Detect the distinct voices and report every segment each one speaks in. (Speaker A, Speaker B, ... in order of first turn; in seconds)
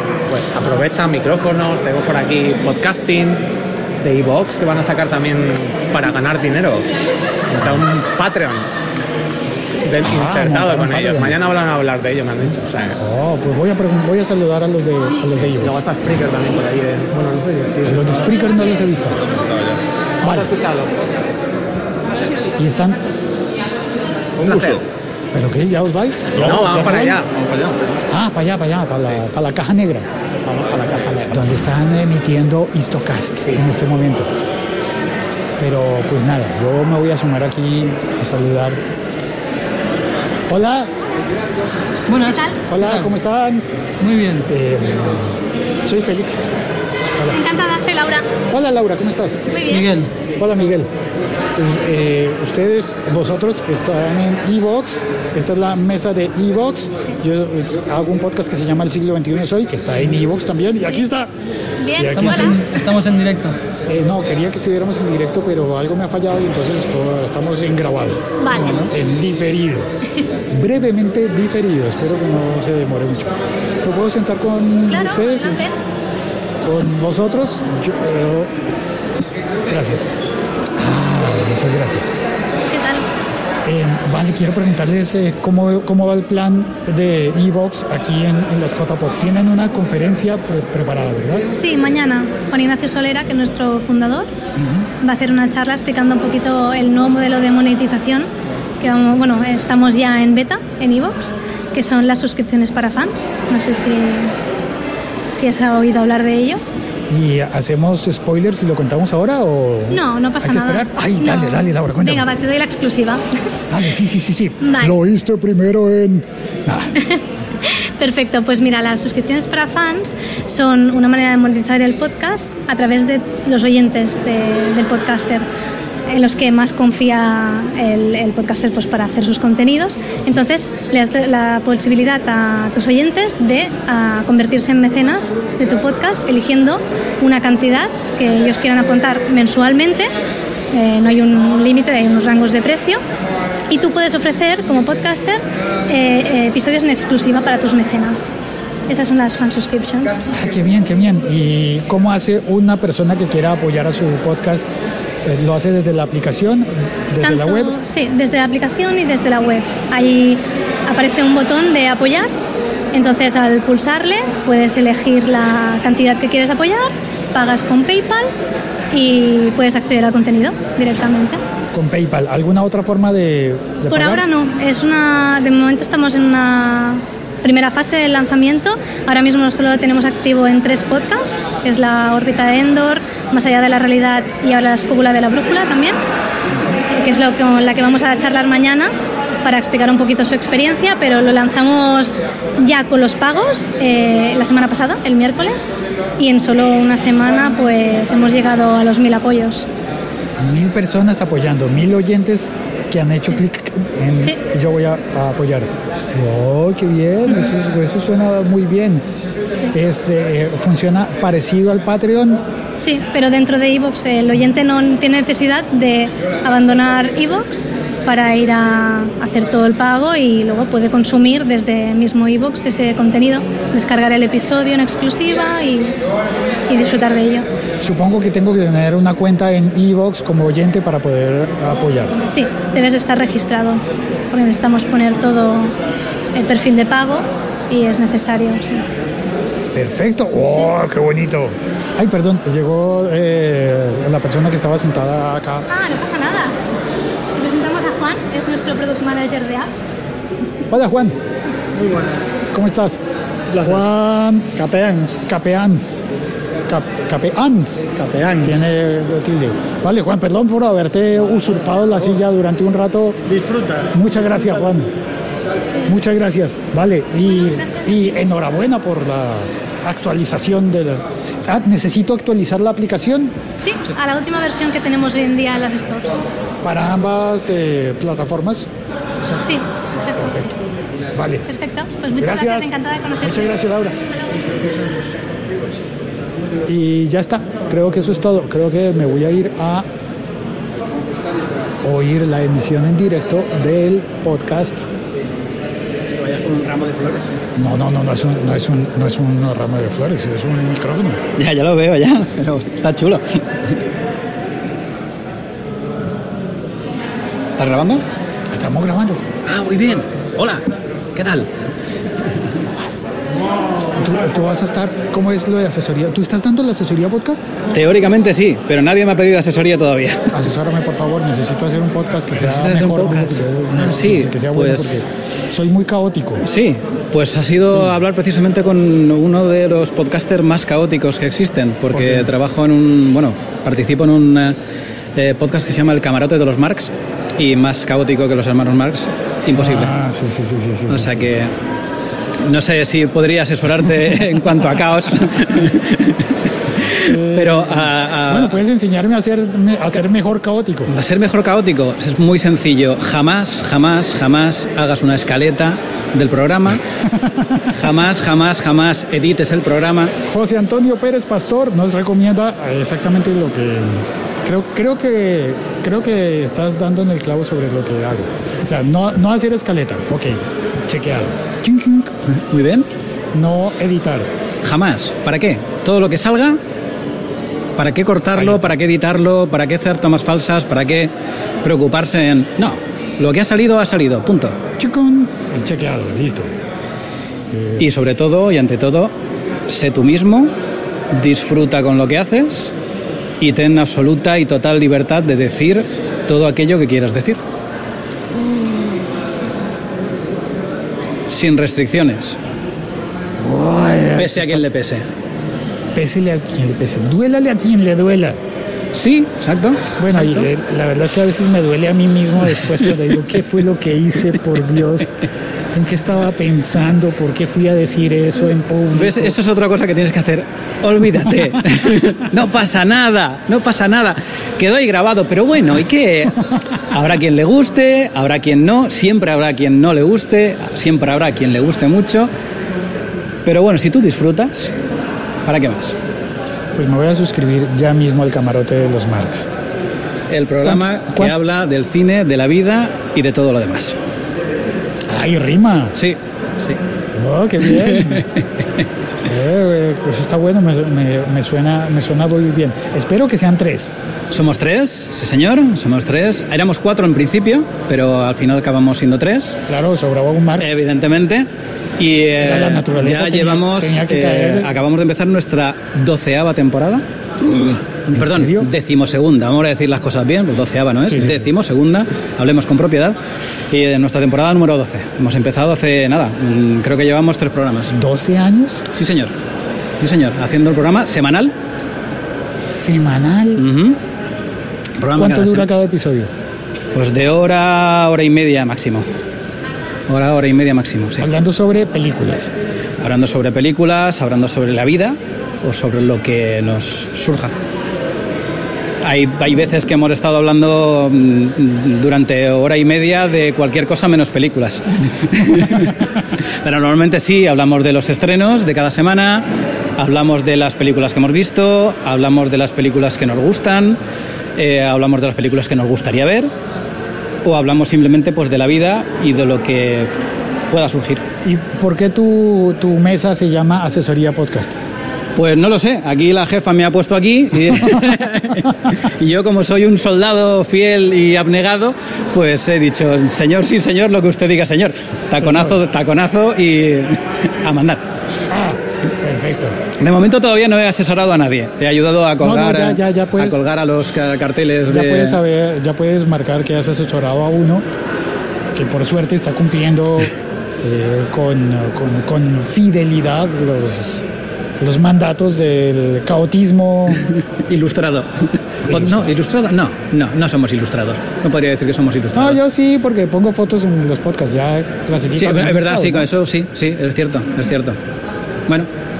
Speaker A: 0.3-3.4, 4.0-6.8, 7.5-8.7, 9.8-13.0, 15.4-18.2, 20.2-21.0, 24.4-24.8, 26.4-27.3, 30.4-31.5, 251.8-252.2, 254.6-255.2, 258.0-258.6
Speaker B: 10.0-11.4, 13.0-15.8, 17.8-19.2, 20.2-20.5, 22.6-23.0, 25.3-27.2, 28.1-30.1, 31.3-34.3, 35.6-38.8, 40.5-40.9, 42.7-43.7, 44.5-46.4, 48.5-49.4, 50.4-50.9, 51.6-61.3, 62.0-62.7, 63.9-69.9, 70.5-75.6, 76.6-78.5, 79.7-80.1, 80.8-82.1, 83.7-91.5, 94.6-94.9, 107.1-112.3, 113.7-117.0, 150.3-154.7, 155.2-157.8, 171.7-174.2, 200.4-209.0, 209.7-212.4, 227.8-232.2, 239.7-245.7, 250.7-251.2, 252.5-253.0, 253.6-254.6, 255.3-256.0, 256.7-257.9, 258.4-263.2, 263.9-264.9, 265.9-273.4, 276.6-278.7, 280.2-280.5, 281.1-281.5, 282.2-283.9, 286.7-289.9, 291.8-294.9, 297.6-301.2, 308.5-309.2, 312.6-313.0, 313.9-317.5, 320.3-326.4, 331.9-332.3, 339.6-341.4, 346.9-350.9, 360.3-372.1, 373.3-374.3, 378.4-378.7, 384.8-386.5, 387.5-387.8, 398.4-398.7, 403.4-404.7, 405.9-408.4, 410.0-415.2, 415.7-419.4, 436.7-439.5, 440.6-441.4, 445.1-445.9, 447.1-448.3, 449.2-453.9, 459.7-460.8, 462.4-464.7, 467.4-468.7, 471.0-471.5, 477.9-478.9, 482.7-483.7, 485.1-486.3, 491.2-492.5, 521.4-524.8, 535.4-535.8, 538.5-539.8, 542.4-543.6, 544.9-547.9, 548.7-554.2, 554.8-557.3, 558.9-559.4, 562.3-566.3
Speaker C: 19.1-19.8, 24.4-24.8, 26.3-27.9
Speaker D: 42.1-43.1, 44.0-44.5, 49.7-50.1, 62.1-63.6
Speaker E: 42.2-42.6, 47.3-48.3, 49.5-49.9, 61.8-62.6, 68.4-68.9, 74.9-75.7, 82.7-83.0, 91.5-94.3, 95.0-98.3, 98.8-104.3, 105.3-106.6, 109.9-113.2, 114.6-115.0, 117.0-125.5, 126.1-140.1, 140.7-143.0, 143.7-148.3, 148.9-150.2, 157.2-162.3, 162.9-168.3, 168.9-171.4, 173.9-186.0, 186.9-199.7, 212.8-226.0, 226.7-227.5, 232.2-235.8, 236.3-238.9, 245.7-246.6, 247.3-249.8, 267.6-267.9, 273.6-276.2, 279.4-280.5, 281.5-283.6
Speaker F: 296.2-297.1, 301.4-303.5, 307.6-308.0, 309.5-310.6, 311.1-311.5, 317.7-320.3, 322.4-325.0, 326.4-334.6, 335.2-339.9, 340.9-341.5, 342.4-348.6, 350.9-356.8, 357.7-360.1, 372.3-372.9, 374.6-376.6, 377.8-381.1, 381.6-384.6, 387.8-389.1, 389.7-390.5, 391.1-392.7, 393.4-397.4, 401.3-402.4, 404.2-405.1, 408.9-410.5, 418.9-426.4, 426.9-432.3, 433.4-434.7, 435.4-436.0, 440.3-444.0, 445.9-446.8, 447.6-448.8, 454.3-459.6, 460.6-461.5, 462.0-467.1, 468.1-473.2, 473.7-477.9, 478.9-479.3, 480.0-481.5, 483.6-484.0, 485.0-485.7, 486.9-489.1, 490.1-491.3, 493.0-497.5, 499.0-506.0, 506.6-509.5, 510.0-514.0, 514.6-516.5, 517.4-520.1, 520.7-521.2, 525.4-538.0, 540.0-545.4, 557.3-558.3, 558.8-562.6, 565.3-568.0